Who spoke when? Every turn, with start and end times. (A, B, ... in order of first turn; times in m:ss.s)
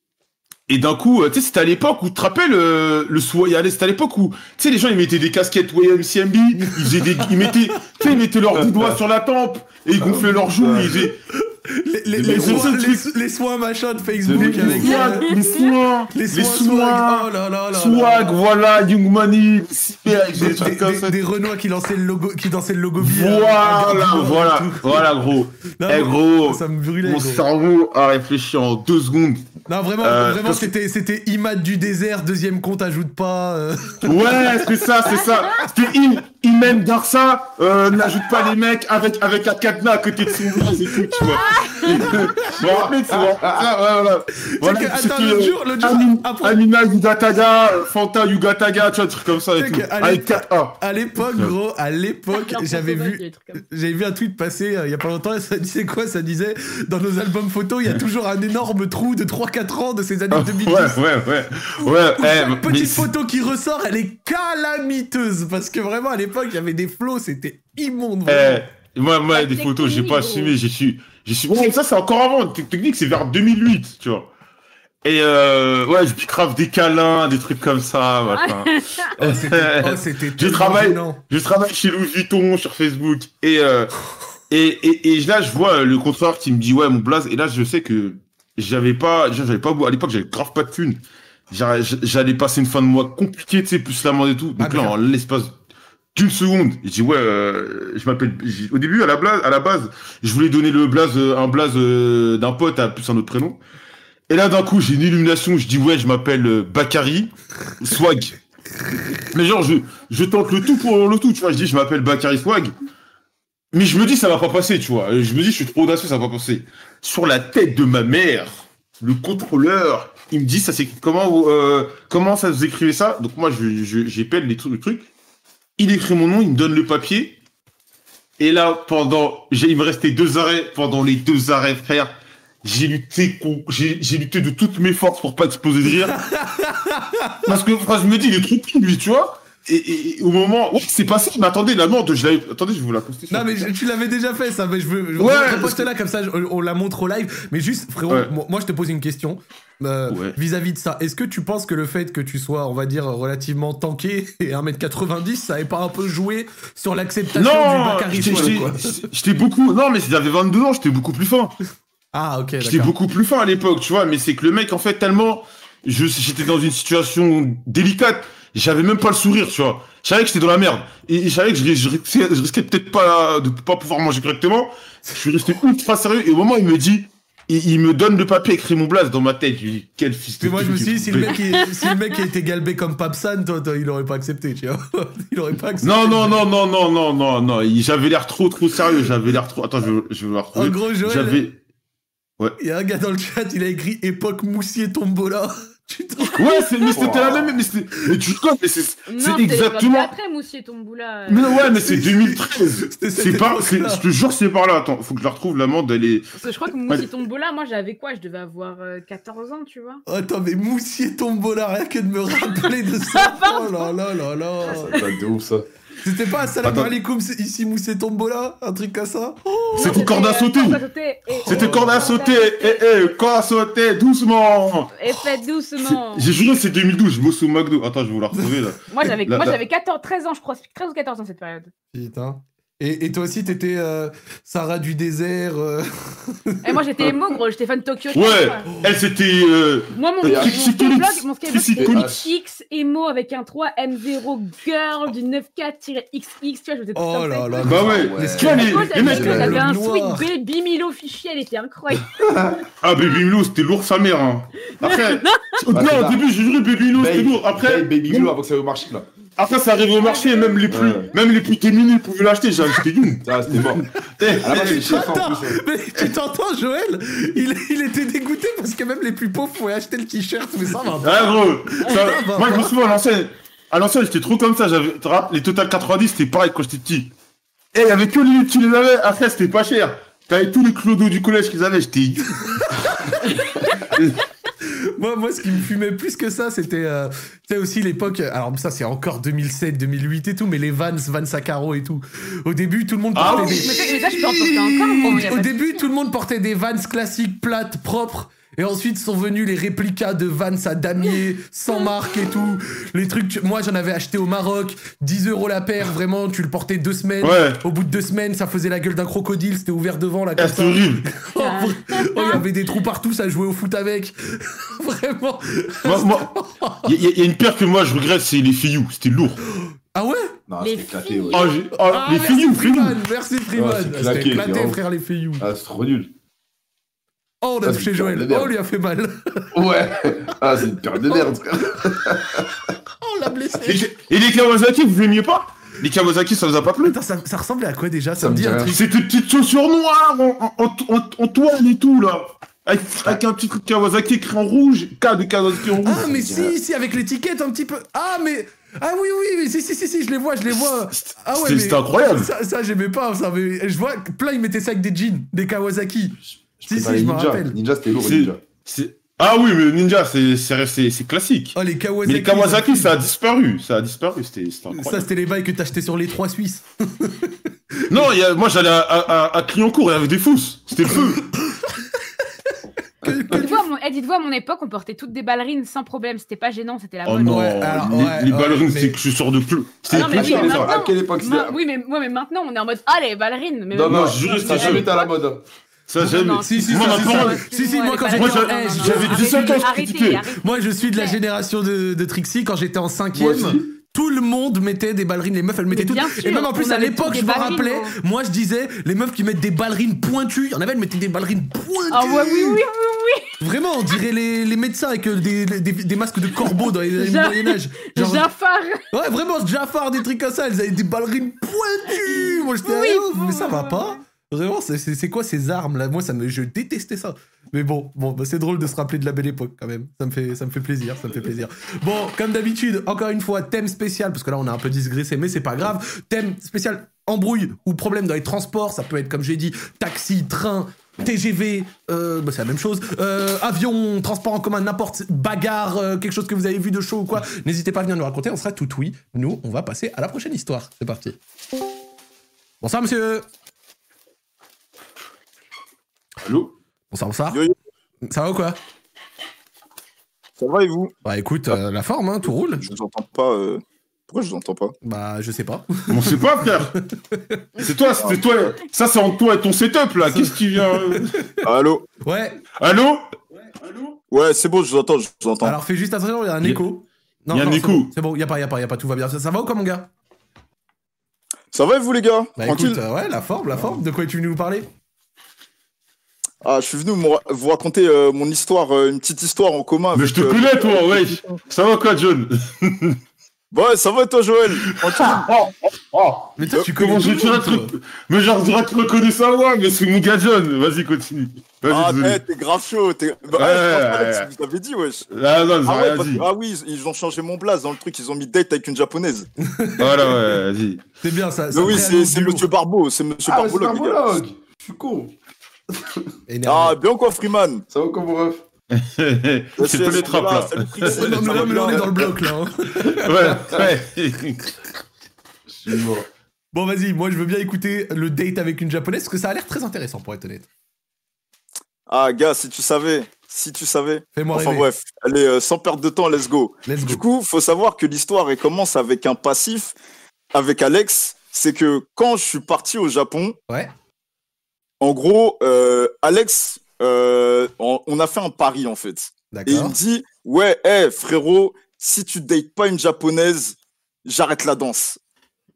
0:00.7-0:11.1 A
0:06.6-0:07.7 B
0:08.5-0:09.0 C
0:10.0-0:11.1 C
0:11.3-0:15.6 B
0:12.1-0:12.7 C
0:12.2-0:13.1 A
0:14.2-0:15.0 C
0:14.3-0:21.1 A
0:14.9-0:15.6 D
0:16.1-0:18.4 B
0:20.3-0:27.4 B
0:23.0-0:29.4 A
0:29.7-0:34.7 B
0:30.0-0:30.7 A
0:34.0-0:50.8 A
0:40.5-0:42.6 B
0:41.4-0:41.8 D
0:42.6-0:43.7 C
0:44.6-0:46.6 B
0:49.6-1:01.0 B
0:52.3-0:53.6 D
1:00.3-1:03.1 A
1:01.8-1:08.6 B
1:08.3-1:14.3 A
1:09.3-1:10.5 D
1:15.0-1:24.0 A
1:18.3-1:19.1 D
1:19.2-1:21.2 B
1:24.5-1:35.5 A
1:34.6-1:34.9 B
1:36.1-1:43.6 A
1:44.3-1:48.4 A
1:49.3-1:52.7 A
1:53.7-2:05.1 A
2:05.8-2:07.4 A
2:08.4-2:16.2 A
2:16.0-2:17.5 B
2:17.4-2:23.7 A
2:23.3-2:39.0 B
2:25.2-2:25.9 A
2:30.1-2:30.4 A
2:37.3-2:41.5 A
2:38.2-2:38.6 C
2:42.1-2:42.9 B
2:42.6-3:01.4 A
3:00.4-3:06.4 B
3:01.5-3:02.2 D
3:05.8-3:11.6 A
3:10.5-3:11.4 B
3:12.6-3:17.4 B
3:16.2-3:16.6 D
3:16.4-3:20.1 A
3:16.9-3:17.5 C
3:19.1-3:21.6 D
3:21.3-3:26.3 A
3:21.7-3:24.0 B
3:26.4-3:30.0 D
3:30.1-3:34.9 B
3:32.6-3:33.9 D
3:34.6-3:35.6 C
3:34.7-3:35.0 D
3:36.0-3:40.0 B
3:36.6-3:36.9 A
3:39.7-3:43.1 D
3:39.8-3:40.8 A
3:41.3-3:42.1 B
3:41.4-3:45.2 A
3:45.0-3:46.3 D
3:45.8-3:49.6 A
3:48.9-3:51.7 D
3:51.9-3:57.0 B
3:56.6-3:58.6 D
3:58.1-4:02.2 A
3:59.9-4:12.1 D
4:00.2-4:00.6 C
4:01.8-4:02.2 C
4:06.9-4:10.3 B
4:07.6-4:09.5 A
4:07.7-4:09.6 C
4:12.2-4:12.6 C
4:12.8-4:18.3 A
4:14.8-4:15.6 D
4:15.7-4:16.2 C
4:17.0-4:19.1 C
4:19.4-4:25.1 A
4:20.0-4:20.7 D
4:20.7-4:21.0 C
4:23.2-4:23.9 C
4:24.3-4:32.7 B
4:24.4-4:25.6 C
4:31.0-4:37.1 A
4:37.7-4:42.7 A
4:42.4-4:43.4 B
4:44.6-5:16.9 B
4:53.1-4:55.3 A
4:53.2-4:55.8 D
5:07.2-5:07.6 A
5:10.4-5:11.0 A
5:11.4-5:12.4 D
5:15.8-5:16.3 A
5:16.8-5:19.4 A
5:19.6-5:20.4 B
5:20.5-5:21.6 C
5:20.6-5:21.6 D
5:21.3-5:22.9 A
5:21.8-5:25.4 B
5:23.5-5:24.8 C
5:25.4-5:26.1 C
5:27.4-5:29.7 B
5:27.6-5:28.5 C
5:29.5-5:32.7 C
5:31.0-5:32.0 B
5:33.0-5:33.9 B
5:33.6-5:37.0 A
5:36.8-5:38.8 B
5:38.2-5:38.7 C
5:38.7-5:46.0 A
5:45.8-5:57.6 B
5:45.8-5:46.5 C
5:50.9-5:52.3 A
5:56.3-5:58.4 C
5:57.9-6:05.1 A
6:01.5-6:02.9 B
6:04.7-6:08.1 B
6:07.9-6:11.2 A
6:10.8-6:13.6 B
6:13.3-6:17.5 D
6:17.0-6:20.8 A
6:17.2-6:19.0 B
6:19.9-6:21.6 C
6:19.9-6:25.1 D
6:23.7-6:25.4 C
6:23.8-6:24.8 A
6:25.9-6:27.4 A
6:26.0-6:31.2 D
6:26.0-6:29.7 B
6:28.2-6:30.2 A
6:30.3-6:42.6 B
6:33.1-6:33.7 C
6:35.7-6:37.9 D
6:41.9-6:43.4 D
6:43.4-6:48.3 B
6:46.8-6:48.8 D
6:48.9-7:21.2 B
6:51.9-6:54.0 D
7:22.6-7:23.2 B
7:26.2-7:26.5 A
7:26.9-7:27.4 B
7:28.0-7:28.6 B
7:30.4-7:30.9 E
7:31.0-7:32.7 B
7:32.6-7:34.7 E
7:34.8-7:36.2 B
7:35.9-7:36.7 A
7:36.7-7:37.4 B
7:37.6-7:41.1 A
7:37.9-7:38.2 E
7:40.0-7:41.2 B
7:41.4-7:41.9 E
7:42.0-7:42.4 B
7:42.6-7:43.0 A
7:43.6-7:44.0 A
7:44.1-7:45.6 E
7:45.4-7:49.9 B
7:47.3-7:47.9 A
7:51.5-7:52.8 E
7:52.4-7:54.7 B
7:56.4-8:01.4 E
7:59.9-8:03.0 A
8:03.5-8:05.3 E
8:04.8-8:12.2 A
8:06.4-8:07.7 B
8:11.7-8:15.1 E
8:13.4-8:14.3 A
8:15.1-8:16.2 A
8:15.6-8:19.3 E
8:19.4-8:20.2 B
8:19.8-8:20.8 A
8:21.0-8:22.5 B
8:21.5-8:24.2 E
8:23.2-8:25.1 C
8:25.7-8:26.0 C
8:26.3-8:26.8 B
8:26.4-8:27.6 E
8:27.7-8:28.4 C
8:28.7-8:31.0 A
8:29.6-8:32.0 E
8:30.9-8:33.4 B
8:31.3-8:31.8 C
8:33.0-8:34.5 A
8:35.5-8:36.1 C
8:36.5-8:40.5 B
8:41.9-8:49.7 E
8:44.1-8:44.7 B
8:46.6-8:47.0 B
8:50.3-8:53.4 E
8:54.8-9:05.0 E
8:59.3-8:59.8 B